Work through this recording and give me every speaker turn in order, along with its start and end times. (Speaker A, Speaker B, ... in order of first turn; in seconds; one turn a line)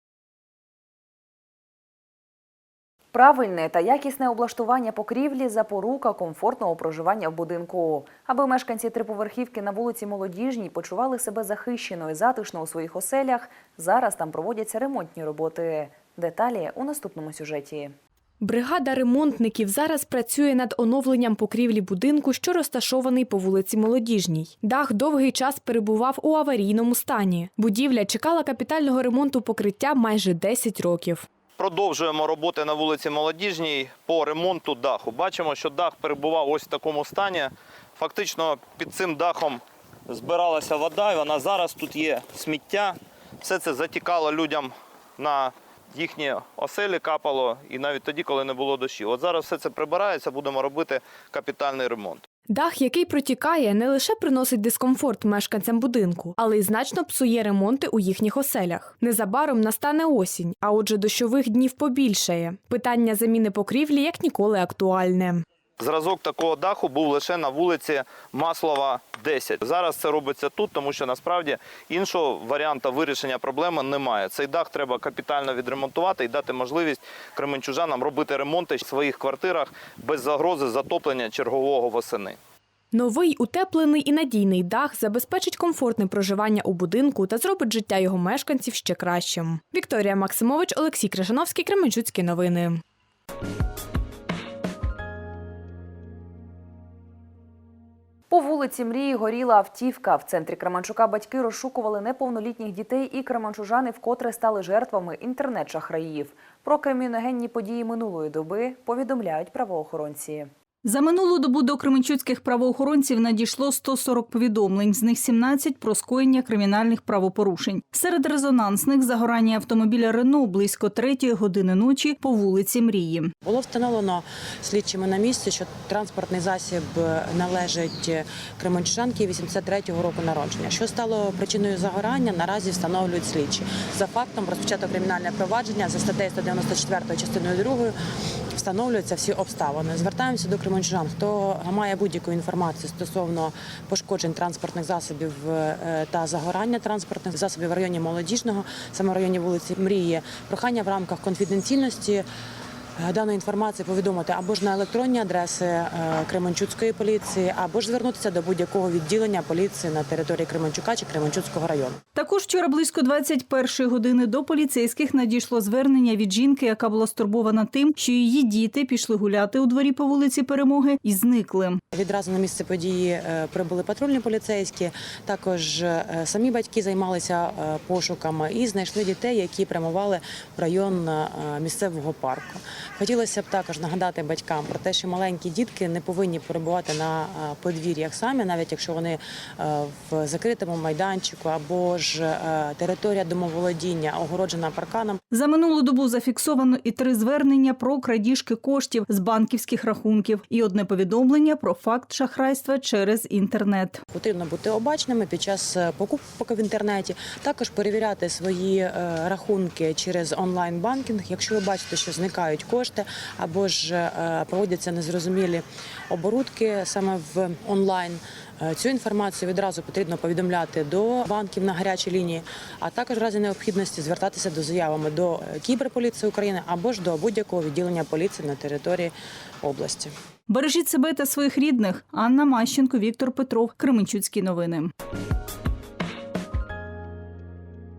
Speaker A: 3.1-17.9
Speaker B: 18.4-31.3
Speaker C: 31.6-52.2
Speaker B: 52.5-65.4
Speaker C: 65.8-82.4
Speaker B: 82.9-92.8
Speaker A: 98.3-110.5
Speaker D: 110.8-123.3
Speaker E: 123.4-137.9
Speaker E: 138.5-152.2
Speaker E: 153.0-162.0
Speaker D: 162.2-171.8
Speaker E: 171.9-195.2
Speaker D: 195.3-204.0
Speaker E: 204.1-230.1
Speaker D: 230.5-234.9